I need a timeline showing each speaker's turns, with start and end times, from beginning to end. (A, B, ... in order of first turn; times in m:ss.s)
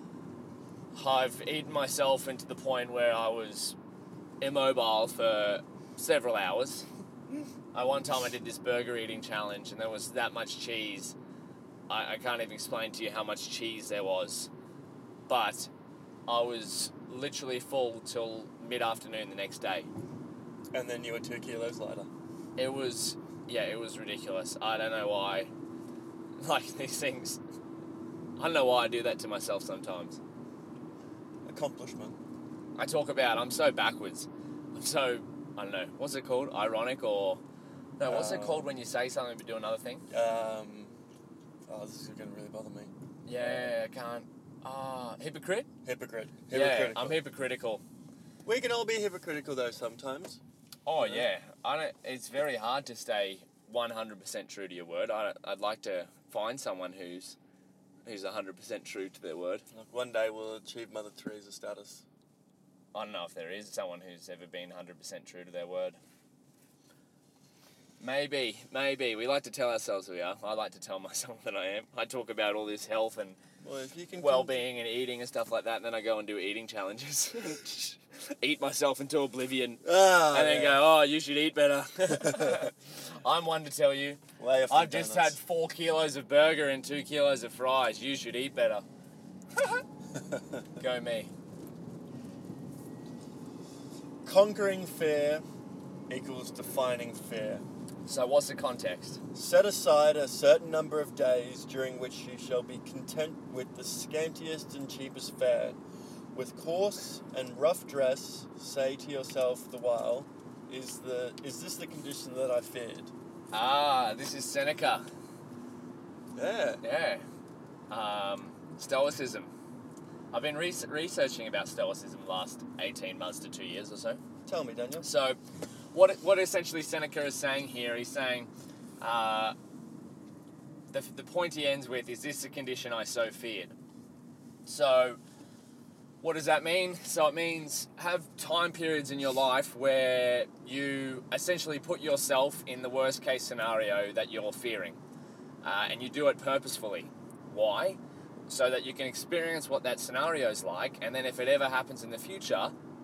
0:00.9-0:03.8 A
0:04.4-0:06.9 A
0:07.7-0:11.2 A
0:11.9-0:14.5 A
0:15.3-0:15.7 A
0:16.3-0:19.9 A
0:20.7-0:22.1 B
0:22.6-0:25.5 A
0:26.4-0:27.4 A
0:28.4-0:30.2 A
0:31.4-0:32.2 B
0:32.8-0:37.4 A
0:38.0-0:40.0 A
0:38.1-0:38.7 B
0:40.1-0:40.9 B
0:41.7-0:42.9 B
0:43.2-0:45.7 A
0:45.8-0:47.2 B
0:46.5-0:47.8 A
0:48.4-0:50.4 B
0:50.8-0:57.4 A
0:51.0-0:51.3 B
0:58.0-0:59.6 A
0:59.7-1:02.0 B
1:02.9-1:06.0 A
1:08.0-1:13.4 A
1:13.6-1:14.6 B
1:14.2-1:28.8 A
1:19.8-1:20.8 B
1:22.1-1:22.7 B
1:24.4-1:25.4 B
1:29.6-1:29.8 A
1:30.2-1:30.6 B
1:30.8-1:31.3 A
1:34.2-1:35.4 B
1:36.1-1:37.6 B
1:38.0-1:39.2 A
1:39.3-1:45.8 B
1:46.3-1:53.1 B
1:53.5-1:55.0 A
1:56.3-1:56.8 B
1:56.8-1:57.2 A
1:57.9-1:59.5 A
2:00.3-2:04.2 A
2:04.4-2:05.0 B
2:05.0-2:05.4 A
2:05.9-2:09.5 A
2:10.9-2:13.7 A
2:14.6-2:15.2 A
2:16.2-2:25.0 A
2:25.6-2:32.7 A